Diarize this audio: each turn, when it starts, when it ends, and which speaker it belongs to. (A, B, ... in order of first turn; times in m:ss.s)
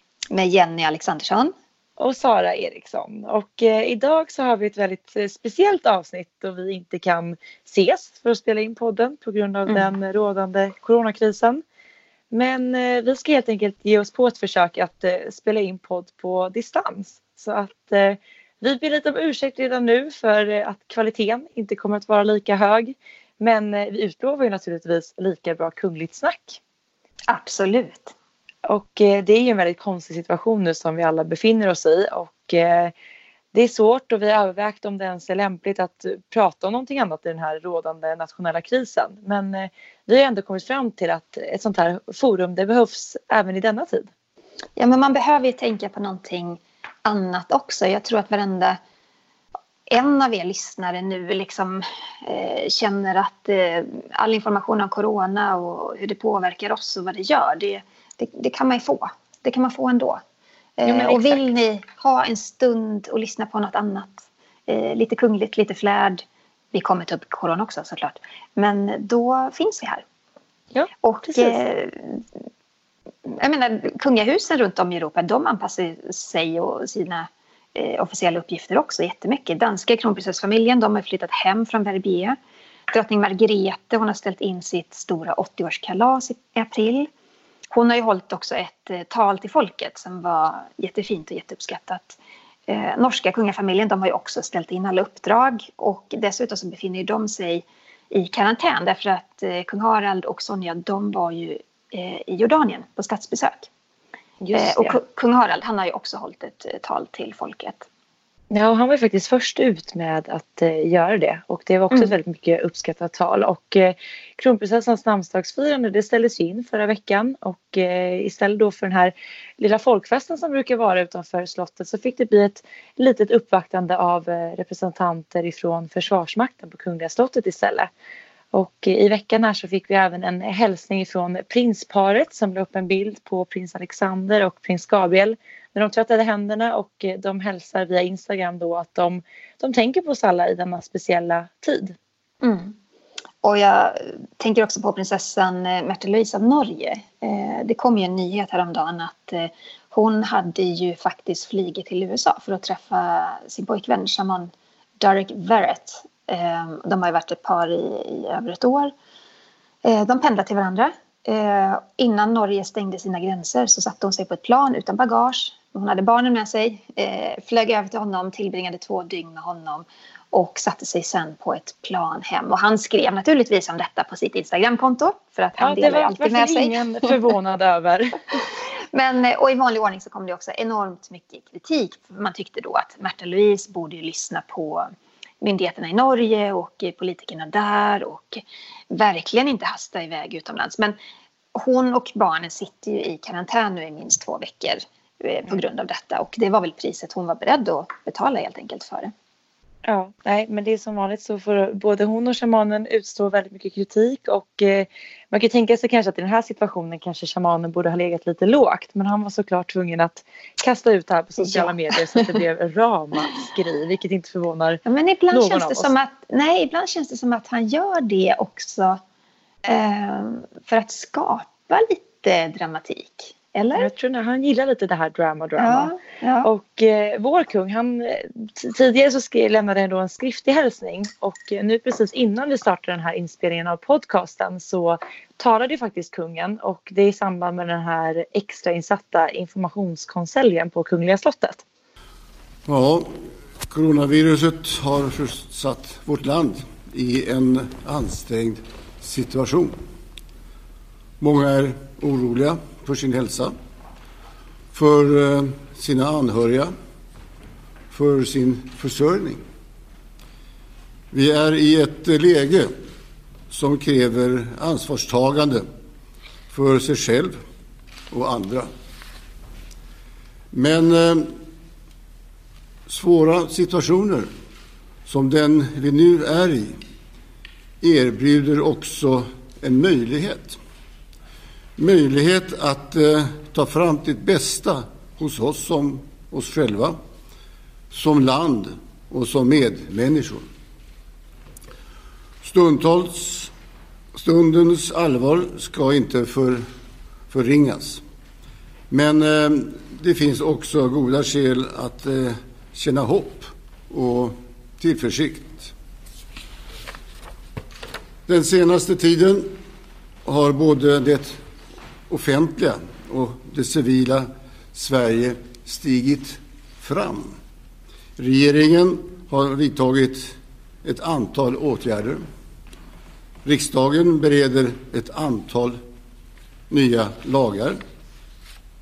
0:00.3-0:01.5 A
0:02.0-0:11.6 B
0:12.3-0:26.6 B
0:27.3-0:28.1 A
0:28.7-0:32.9 B
0:33.5-0:44.1 B
0:44.8-0:48.8 A
0:49.9-1:00.2 A
1:00.8-1:10.0 A
1:00.9-1:01.4 B
1:10.7-1:11.6 B
1:11.0-1:12.2 A
1:13.3-1:22.4 A
1:22.9-1:27.1 A
1:27.7-1:43.7 A
1:44.4-1:45.0 B
1:44.5-1:47.9 A
1:48.5-2:07.9 B
2:08.5-2:22.0 B
2:22.4-2:22.8 A
2:23.4-2:38.9 A
2:39.8-2:57.1 A
2:55.6-2:58.4 B
2:58.9-3:04.9 A
3:05.4-3:11.0 A
3:11.5-3:19.1 A
3:19.8-3:35.9 B
3:31.4-3:32.3 A
3:34.9-3:39.0 A
3:39.7-3:43.9 A
3:43.8-3:45.9 B
3:45.6-3:46.5 A
3:46.4-4:01.6 B
4:02.7-4:09.8 C
4:11.2-4:13.6 C
4:14.7-4:16.7 C
4:17.9-4:19.4 C
4:21.1-4:22.7 C
4:23.5-4:25.7 C
4:26.5-4:27.4 C
4:28.1-4:28.7 C
4:30.5-4:31.4 C
4:32.9-4:34.3 C
4:35.1-4:36.8 C
4:37.8-4:40.6 C
4:41.8-4:47.0 C
4:47.9-4:50.5 C
4:52.4-4:53.5 C
4:54.2-4:56.6 C
4:57.3-4:58.0 C
4:58.9-5:05.7 C
5:08.3-5:09.6 C
5:10.2-5:11.4 C
5:12.1-5:17.4 C
5:18.2-5:22.2 C
5:23.4-5:25.8 C
5:26.7-5:27.8 C